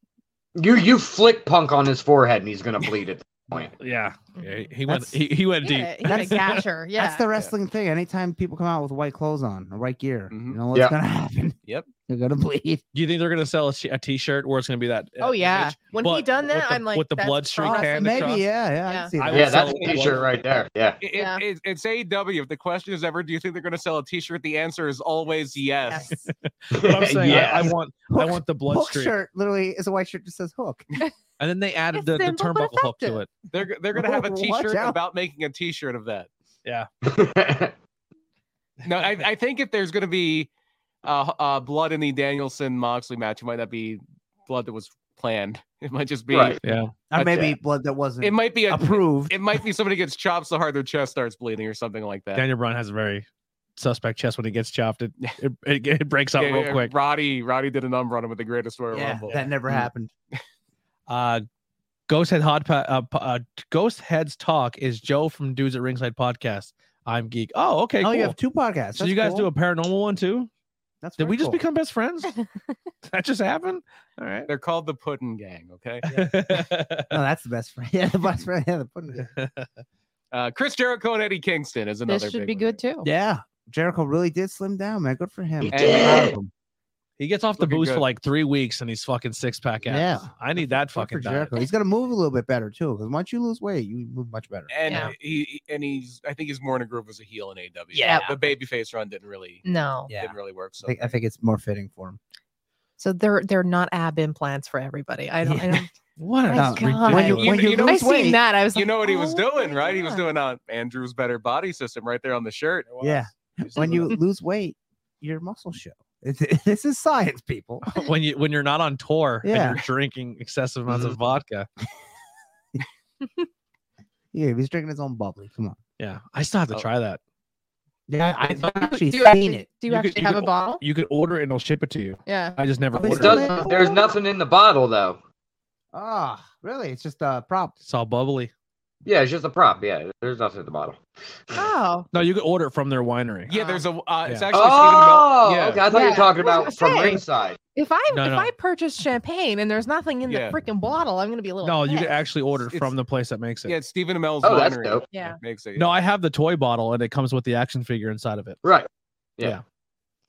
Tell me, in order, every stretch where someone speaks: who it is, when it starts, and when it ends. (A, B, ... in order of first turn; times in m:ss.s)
0:00.6-0:03.7 A
0:03.8-0:06.6 B
0:04.3-0:04.7 C
0:04.9-0:05.1 D
0:05.6-0:07.2 C
0:06.0-0:06.4 D
0:07.0-0:12.8 D
0:10.3-0:10.6 E
0:12.9-0:18.4 B
0:15.2-0:19.1 C
0:17.7-0:20.0 D
0:19.2-0:20.2 B
0:19.3-0:21.0 A
0:21.0-0:26.2 E
0:21.1-0:21.4 C
0:25.9-0:26.2 C
0:26.6-0:29.1 B
0:26.7-0:27.7 A
0:27.2-0:30.9 D
0:31.4-0:33.3 B
0:31.9-0:33.2 C
0:33.5-0:36.3 E
0:33.9-0:35.0 D
0:37.0-0:37.7 A
0:38.8-0:40.5 E
0:41.0-0:46.6 E
0:46.3-0:46.6 A
0:46.6-0:47.4 B
0:47.1-0:49.4 D
0:47.2-0:47.5 E
0:48.2-0:52.4 E
0:52.3-0:53.2 B
0:53.8-0:56.9 B
0:56.4-1:00.4 E
0:58.9-1:00.1 D
1:01.1-1:01.4 B
1:02.1-1:08.3 B
1:08.0-1:09.5 D
1:09.0-1:10.5 B
1:11.0-1:11.6 D
1:11.2-1:12.4 B
1:13.0-1:14.5 B
1:14.5-1:16.0 E
1:16.0-1:17.2 B
1:16.0-1:19.3 D
1:19.3-1:19.7 B
1:20.3-1:22.8 E
1:22.1-1:23.1 C
1:23.0-1:26.5 D
1:25.6-1:26.4 A
1:25.7-1:26.4 E
1:27.2-1:31.5 B
1:27.6-1:28.0 E
1:29.8-1:30.3 D
1:30.9-1:35.1 D
1:34.7-1:41.1 E
1:34.8-1:35.1 C
1:37.9-1:38.3 D
1:39.6-1:40.1 C
1:40.1-1:42.2 D
1:43.0-1:45.9 C
1:45.4-1:45.8 D
1:46.2-1:47.7 B
1:46.5-1:50.2 C
1:46.5-1:48.4 D
1:47.2-1:48.1 E
1:48.7-1:54.0 E
1:53.0-1:57.8 D
1:53.8-1:54.2 C
1:57.8-2:01.7 B
1:59.4-1:59.8 D
2:04.3-2:05.8 D
2:06.0-2:07.2 B
2:08.1-2:09.6 D
2:08.9-2:10.8 C
2:09.9-2:13.5 B
2:12.2-2:12.6 C
2:12.9-2:13.7 D
2:13.1-2:15.2 A
2:13.3-2:14.0 C
2:15.9-2:17.7 D
2:17.8-2:18.5 B
2:19.0-2:21.6 A
2:21.5-2:22.1 C
2:22.1-2:23.5 B
2:23.5-2:23.8 C
2:23.5-2:25.9 E
2:24.5-2:27.6 A
2:25.9-2:27.2 C
2:27.7-2:32.1 C
2:28.1-2:28.5 B
2:30.3-2:30.6 E
2:31.6-2:33.8 B
2:32.6-2:32.9 E
2:33.6-2:35.9 E
2:34.4-2:35.1 A
2:35.1-2:35.4 C
2:35.8-2:38.6 B
2:38.6-2:39.6 A